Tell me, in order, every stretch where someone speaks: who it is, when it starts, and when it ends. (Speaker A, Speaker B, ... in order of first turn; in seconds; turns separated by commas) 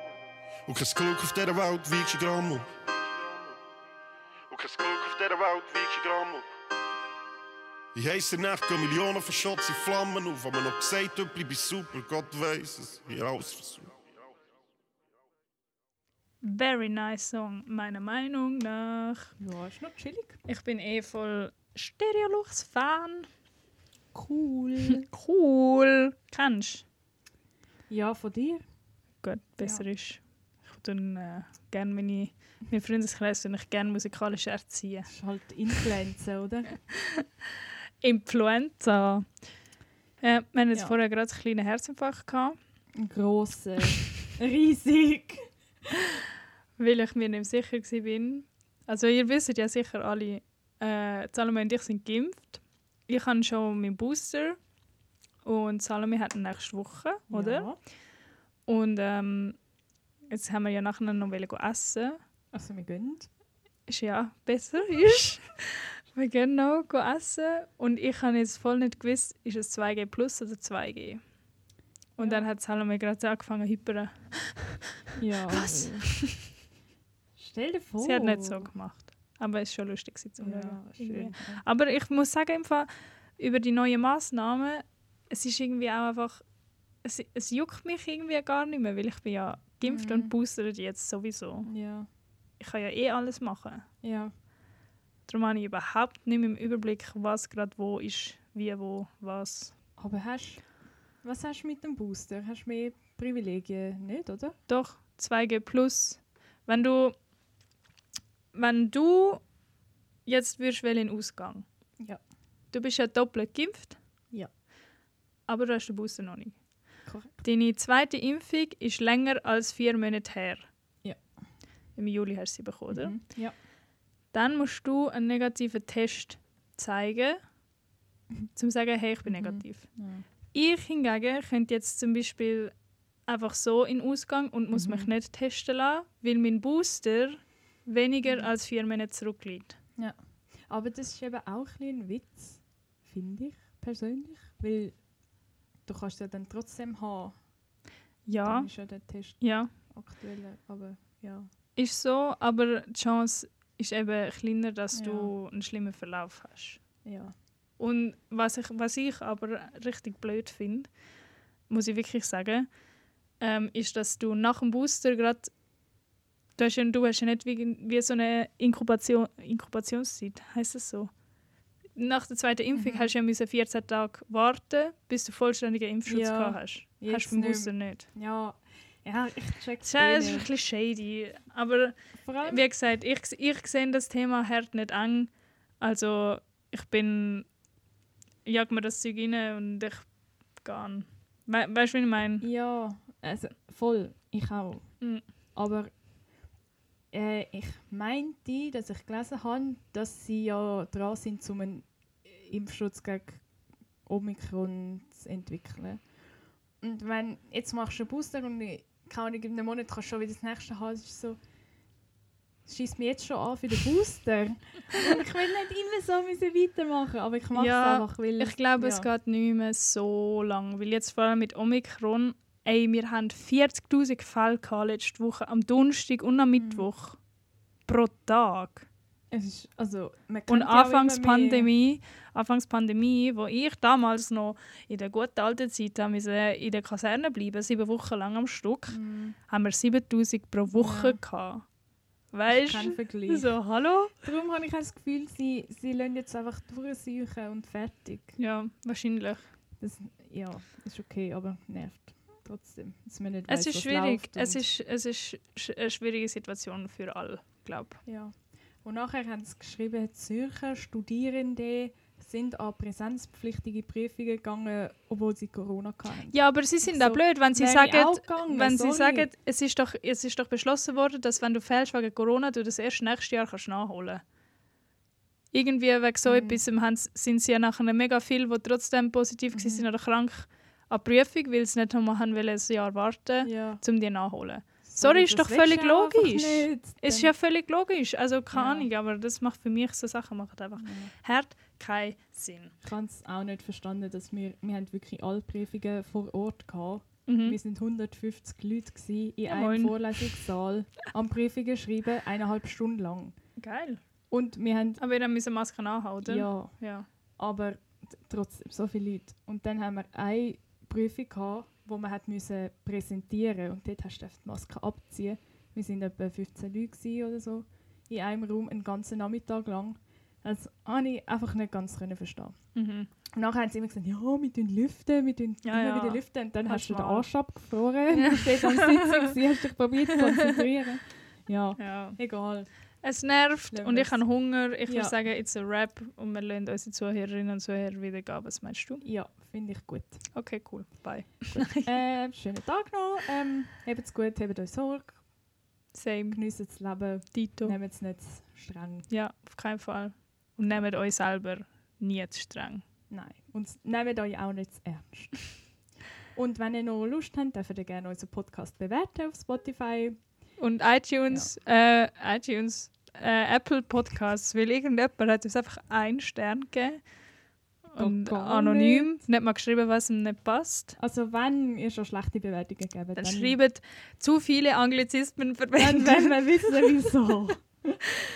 Speaker A: 0.7-2.7, Speaker A: 4.5-6.5, Speaker A: 7.9-13.9, Speaker B: 16.4-19.3, Speaker C: 19.4-20.4, Speaker B: 20.5-23.3, Speaker C: 24.1-25.1, Speaker B: 24.9-26.8, Speaker C: 27.9-28.6, Speaker B: 29.2-35.1, Speaker C: 29.6-29.9, Speaker C: 35.1-36.8, Speaker B: 38.0-39.3, Speaker B: 40.2-42.6, Speaker C: 40.7-41.0, Speaker C: 43.0-45.5, Speaker B: 46.8-54.6, Speaker B: 55.4-57.7, Speaker C: 57.3-57.8, Speaker B: 58.7-59.6, Speaker B: 60.3-62.2, Speaker C: 62.5-63.3, Speaker B: 63.9-71.2, Speaker B: 72.2-74.8, Speaker C: 72.2-72.4, Speaker C: 75.2-76.1, Speaker B: 75.5-76.4, Speaker C: 77.4-78.7, Speaker B: 78.0-86.4, Speaker C: 80.4-81.6, Speaker B: 87.0-91.7, Speaker C: 89.8-90.3, Speaker C: 91.6-92.1, Speaker B: 92.6-93.8, Speaker C: 94.0-94.3, Speaker B: 95.3-99.7, Speaker C: 100.0-100.6, Speaker C: 101.2-104.6, Speaker B: 104.7-107.2, Speaker B: 108.5-109.4, Speaker B: 110.3-111.6, Speaker B: 112.7-114.0, Speaker B: 115.5-116.5, Speaker C: 117.0-117.4, Speaker B: 117.4-120.7, Speaker B: 122.0-123.2, Speaker C: 122.9-123.5, Speaker B: 124.3-127.4, Speaker B: 128.6-129.9, Speaker C: 129.3-130.2, Speaker B: 130.5-132.7, Speaker B: 133.3-139.8, Speaker C: 134.7-135.1, Speaker C: 140.0-144.9, Speaker C: 145.9-147.4, Speaker B: 148.3-148.7, Speaker C: 148.4-151.5, Speaker B: 149.4-149.7, Speaker B: 151.8-156.8, Speaker C: 154.9-155.3, Speaker C: 157.1-157.3, Speaker B: 157.8-160.9, Speaker B: 161.7-162.7, Speaker B: 163.4-165.5, Speaker B: 166.6-171.1, Speaker B: 171.9-178.1, Speaker C: 172.7-173.1, Speaker C: 176.1-180.5, Speaker B: 179.8-187.4, Speaker C: 182.2-182.6, Speaker B: 188.4-190.1, Speaker B: 190.6-192.4, Speaker C: 192.4-195.0, Speaker C: 195.6-195.9, Speaker C: 197.1-203.4, Speaker C: 204.1-206.0, Speaker C: 206.8-211.4, Speaker C: 212.7-219.1, Speaker B: 217.6-227.2, Speaker C: 226.6-226.9, Speaker B: 227.9-228.9, Speaker C: 229.3-231.7, Speaker B: 230.5-241.6, Speaker C: 238.9-239.4, Speaker C: 240.7-241.2, Speaker B: 242.3-244.1, Speaker C: 242.5-248.4, Speaker B: 248.4-249.5, Speaker C: 249.8-254.6, Speaker B: 253.5-258.0, Speaker C: 258.1-269.3, Speaker B: 266.3-274.2, Speaker B: 275.5-292.7, Speaker C: 276.2-276.6, Speaker C: 279.5-279.8, Speaker C: 283.4-283.8, Speaker C: 284.8-287.3, Speaker C: 288.5-288.9, Speaker C: 290.8-291.1, Speaker C: 292.8-303.3, Speaker B: 297.3-297.6, Speaker B: 299.4-300.4, Speaker B: 303.6-304.0, Speaker C: 304.3-305.0, Speaker B: 305.0-307.1, Speaker C: 306.2-306.7, Speaker C: 307.4-322.6, Speaker B: 322.7-323.1, Speaker C: 323.3-332.7, Speaker B: 325.6-327.3, Speaker B: 328.1-329.3, Speaker B: 331.8-332.2, Speaker B: 333.0-339.0, Speaker C: 333.7-335.2, Speaker C: 339.0-340.2, Speaker B: 340.3-341.9, Speaker C: 341.5-345.2, Speaker B: 345.9-346.4, Speaker C: 346.3-349.1, Speaker B: 347.3-347.8, Speaker B: 349.1-352.8, Speaker C: 353.1-355.7, Speaker C: 356.3-360.2, Speaker B: 360.6-367.0, Speaker B: 367.9-371.0, Speaker C: 368.0-369.2, Speaker C: 371.0-373.6, Speaker B: 373.1-377.0, Speaker C: 375.8-378.0